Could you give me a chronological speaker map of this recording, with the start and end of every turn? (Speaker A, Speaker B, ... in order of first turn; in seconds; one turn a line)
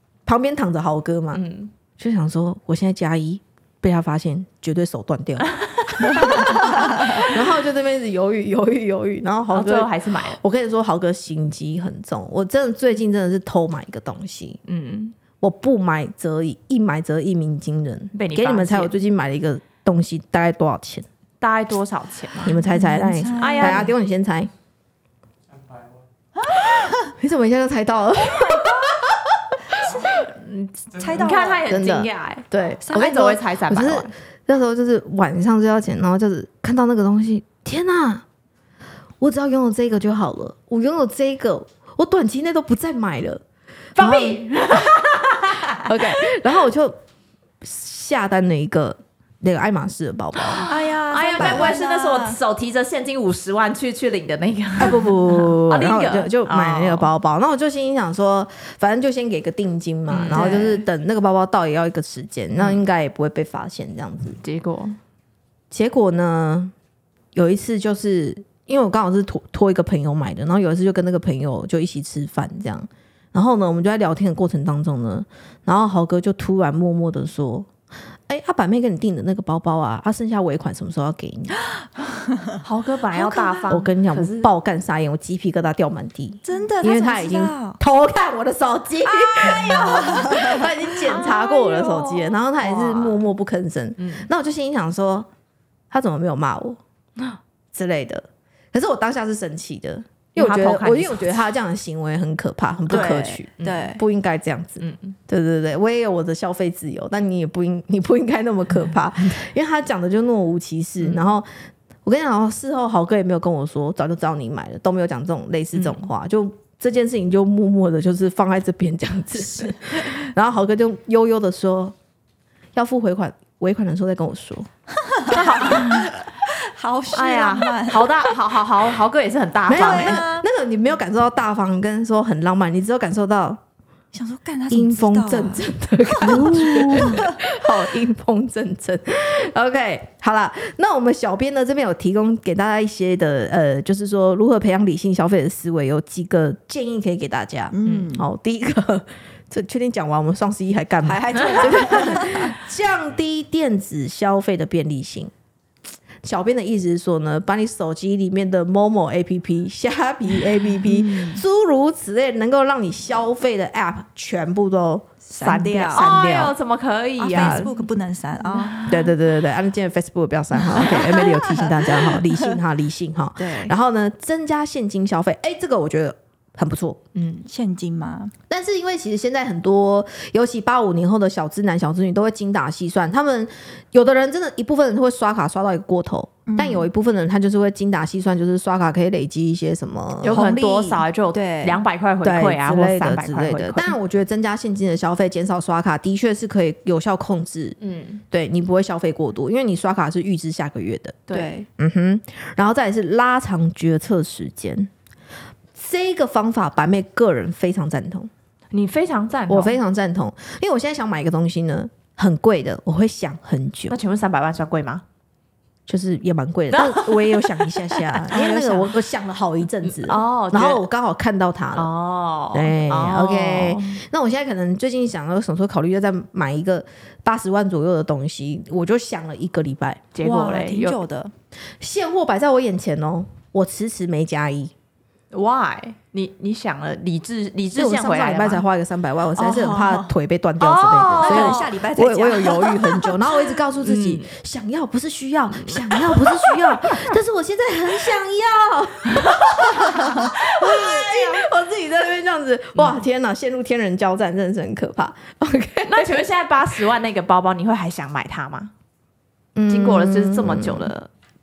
Speaker A: 0.2-1.4
Speaker B: 1.3-1.7
Speaker A: 2.0-14.6
Speaker B: 5.9-7.3
Speaker B: 9.5-10.4
Speaker B: 14.7-15.2
Speaker A: 15.4-21.0
Speaker B: 18.1-18.9
Speaker B: 21.4-22.6
Speaker A: 22.4-24.5
Speaker C: 22.6-23.9
Speaker B: 23.4-23.9
Speaker C: 26.4-27.1
Speaker A: 27.2-30.1
Speaker C: 29.8-30.1
Speaker B: 30.1-34.1
Speaker C: 30.9-31.7
Speaker A: 31.6-38.2
Speaker C: 32.8-33.2
Speaker A: 39.2-43.4
Speaker B: 44.0-46.0
Speaker A: 44.0-44.4
Speaker A: 45.7-47.0
Speaker A: 47.6-50.7
Speaker B: 50.5-57.1
Speaker C: 50.6-52.4
Speaker A: 51.4-51.6
Speaker A: 54.8-64.4
Speaker B: 60.1-60.9
Speaker B: 62.5-62.8
Speaker B: 64.4-65.0
Speaker A: 65.7-66.7
Speaker A: 67.3-77.7
Speaker A: 78.3-81.6
Speaker B: 82.6-84.5
Speaker A: 83.2-95.3
Speaker C: 86.4-87.8
Speaker C: 89.0-91.5
Speaker B: 89.5-90.1
Speaker B: 91.1-93.2
Speaker B: 94.0-94.3
Speaker A: 95.9-96.8
Speaker A: 97.7-111.5
Speaker B: 100.4-101.5
Speaker B: 102.9-104.0
Speaker C: 102.9-104.0
Speaker B: 104.8-105.1
Speaker B: 111.0-111.3
Speaker A: 112.0-121.9
Speaker B: 115.7-116.0
Speaker A: 122.7-124.7
Speaker C: 125.0-128.4
Speaker B: 125.3-126.1
Speaker B: 127.1-130.2
Speaker A: 129.7-133.6
Speaker C: 129.7-130.4
Speaker C: 134.1-135.7
Speaker A: 134.7-155.3
Speaker C: 136.2-137.4
Speaker B: 136.2-137.2
Speaker C: 147.7-148.3
Speaker C: 151.0-152.6
Speaker A: 156.2-165.1
Speaker C: 160.9-161.4
Speaker C: 165.2-166.1
Speaker B: 165.4-167.7
Speaker A: 165.9-166.5
Speaker C: 167.2-169.1
Speaker A: 167.3-167.7
Speaker B: 168.5-169.0
Speaker A: 168.9-177.0
Speaker C: 170.6-172.5
Speaker C: 173.4-173.7
Speaker B: 177.2-177.4
Speaker C: 177.4-178.3
Speaker A: 178.5-190.9
Speaker C: 186.5-186.9
Speaker B: 190.2-193.9
Speaker C: 190.3-191.8
Speaker A: 192.2-197.8
Speaker B: 197.8-198.2
Speaker A: 198.3-201.2
Speaker B: 201.3-201.5
Speaker C: 201.3-201.7
Speaker A: 201.8-204.9
Speaker A: 205.8-208.3
Speaker B: 208.7-209.8
Speaker A: 209.5-214.0
Speaker B: 213.9-215.0
Speaker A: 215.9-221.9
Speaker B: 216.8-217.2
Speaker C: 218.1-219.0
Speaker B: 219.8-220.8
Speaker B: 221.8-224.0
Speaker A: 222.5-230.1
Speaker B: 230.1-231.0
Speaker C: 230.2-231.3
Speaker A: 231.8-234.7
Speaker B: 235.3-238.6
Speaker A: 237.7-256.2
Speaker B: 239.4-240.0
Speaker C: 239.6-240.1
Speaker B: 240.6-241.7
Speaker C: 241.1-243.1
Speaker B: 243.8-244.3
Speaker B: 245.5-246.8
Speaker C: 249.9-250.3
Speaker B: 250.0-251.0
Speaker B: 255.9-258.7
Speaker A: 259.5-260.9
Speaker B: 259.7-261.1